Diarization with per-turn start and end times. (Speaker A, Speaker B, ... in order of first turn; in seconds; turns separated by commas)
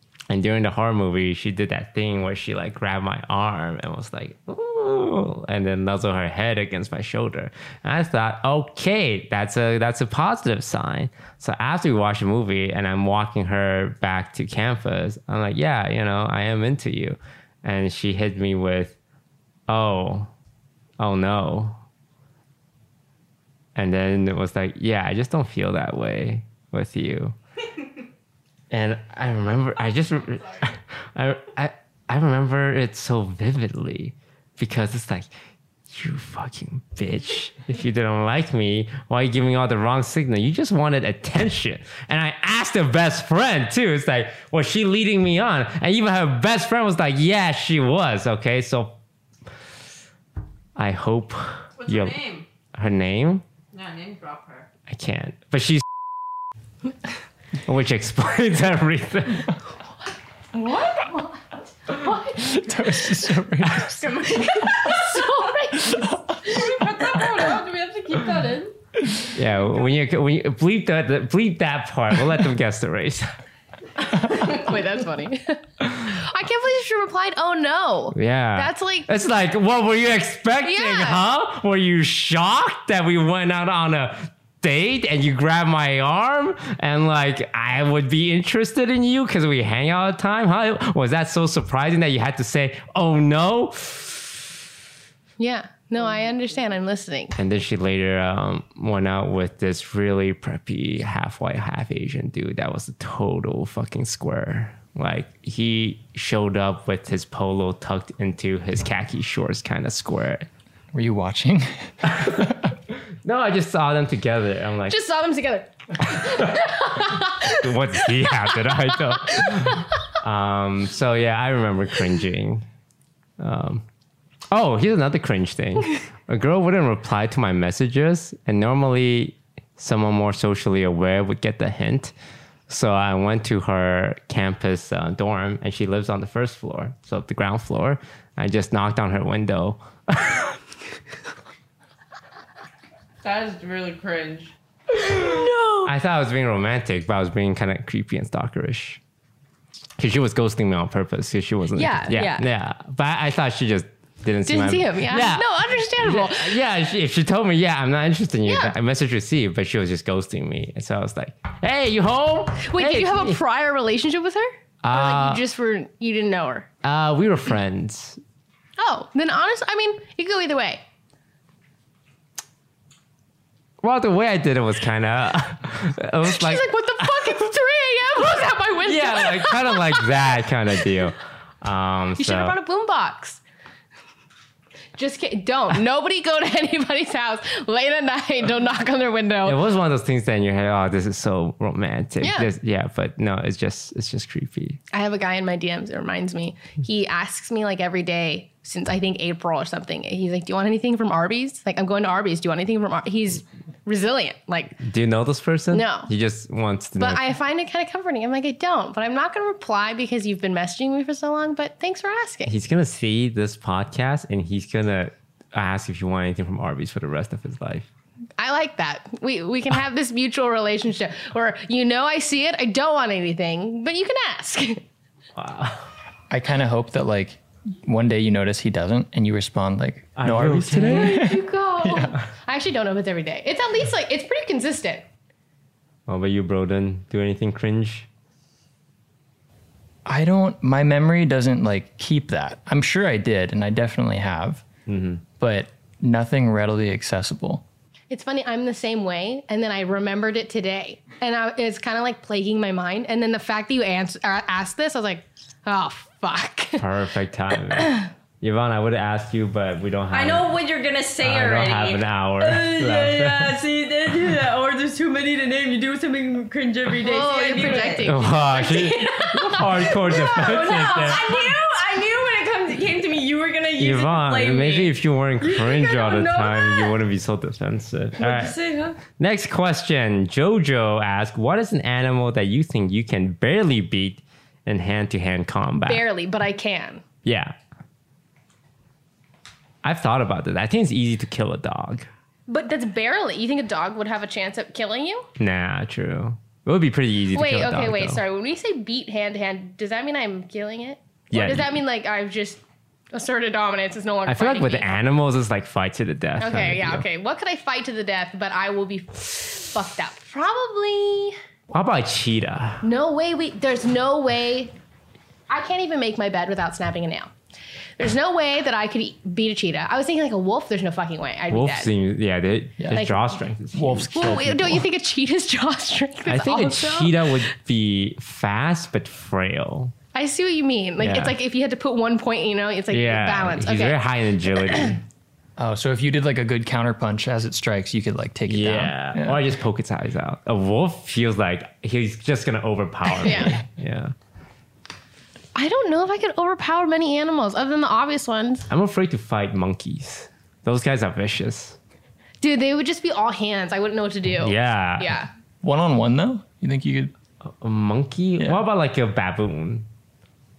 Speaker A: 0.3-18.9, Speaker A: 19.7-20.3, Speaker A: 21.0-21.8, Speaker A: 23.8-27.3, Speaker A: 28.7-35.3, Speaker A: 35.9-49.0, Speaker A: 50.8-52.2, Speaker B: 51.8-52.5, Speaker A: 52.7-53.4, Speaker B: 53.7-54.7, Speaker A: 54.9-55.8, Speaker A: 57.6-59.5, Speaker C: 60.5-61.4, Speaker C: 61.9-62.6, Speaker D: 62.4-64.1, Speaker B: 63.8-65.2, Speaker C: 64.3-67.3, Speaker B: 66.4-68.7, Speaker A: 69.3-73.3, Speaker C: 74.0-79.1, Speaker A: 78.1-94.5, Speaker C: 80.6-81.2, Speaker C: 95.4-97.3, Speaker A: 97.3-110.5, Speaker D: 110.9-112.5, Speaker A: 113.2-115.0, Speaker C: 114.9-120.0, Speaker A: 117.4-122.7, Speaker A: 123.4-123.8, Speaker A: 124.5-132.1, Speaker A: 132.7-140.5, Speaker B: 143.2-144.5, Speaker C: 145.1-145.9, Speaker A: 145.8-149.0, Speaker A: 150.0-163.4, Speaker C: 151.8-152.4, Speaker C: 154.5-156.6, Speaker C: 158.4-158.8, Speaker C: 162.6-166.7, Speaker A: 164.8-165.4, Speaker A: 166.8-168.2, Speaker C: 168.8-170.8, Speaker A: 173.8-177.4, Speaker C: 176.2-180.2, Speaker A: 178.8-182.6, Speaker C: 182.2-183.4, Speaker C: 184.9-189.6, Speaker A: 189.4-194.8, Speaker C: 192.2-192.5, Speaker C: 194.9-204.8, Speaker A: 204.8-207.2, Speaker C: 205.7-206.1, Speaker C: 206.9-212.5, Speaker A: 212.4-217.9, Speaker C: 218.4-224.8, Speaker A: 225.3-225.9, Speaker D: 226.3-232.1, Speaker A: 230.2-231.2, Speaker C: 230.8-235.1, Speaker A: 236.1-238.1, Speaker D: 240.1-244.7, Speaker A: 244.9-245.2, Speaker D: 245.4-247.6, Speaker C: 248.1-256.8, Speaker A: 256.8-260.5, Speaker C: 257.8-258.1, Speaker B: 260.1-268.1, Speaker A: 261.2-263.6, Speaker C: 267.0-271.2, Speaker A: 268.0-271.4, Speaker B: 270.1-276.9, Speaker A: 273.8-278.5, Speaker B: 278.2-279.0, Speaker A: 279.1-286.0, Speaker C: 285.8-287.0, Speaker A: 287.2-287.5, Speaker A: 289.8-292.1, Speaker C: 292.5-295.3, Speaker A: 295.4-298.2, Speaker C: 297.3-302.6, Speaker A: 301.3-301.7, Speaker C: 303.1-304.9, Speaker A: 304.2-307.0, Speaker C: 306.4-311.4, Speaker A: 311.7-312.8, Speaker C: 312.8-314.7, Speaker C: 315.5-317.3, Speaker C: 318.0-321.9, Speaker A: 321.5-324.4, Speaker C: 322.9-323.2, Speaker D: 323.7-324.8, Speaker C: 324.1-327.3, Speaker A: 326.2-329.9, Speaker C: 330.1-334.0, Speaker A: 331.0-331.4, Speaker A: 332.9-335.0, Speaker C: 334.6-334.9, Speaker D: 335.6-339.4, Speaker A: 338.4-344.1, Speaker C: 343.2-343.6, Speaker C: 345.5-348.7, Speaker A: 348.7-351.8, Speaker C: 352.4-355.3, Speaker A: 354.4-355.2, Speaker D: 355.6-357.1, Speaker A: 357.4-359.9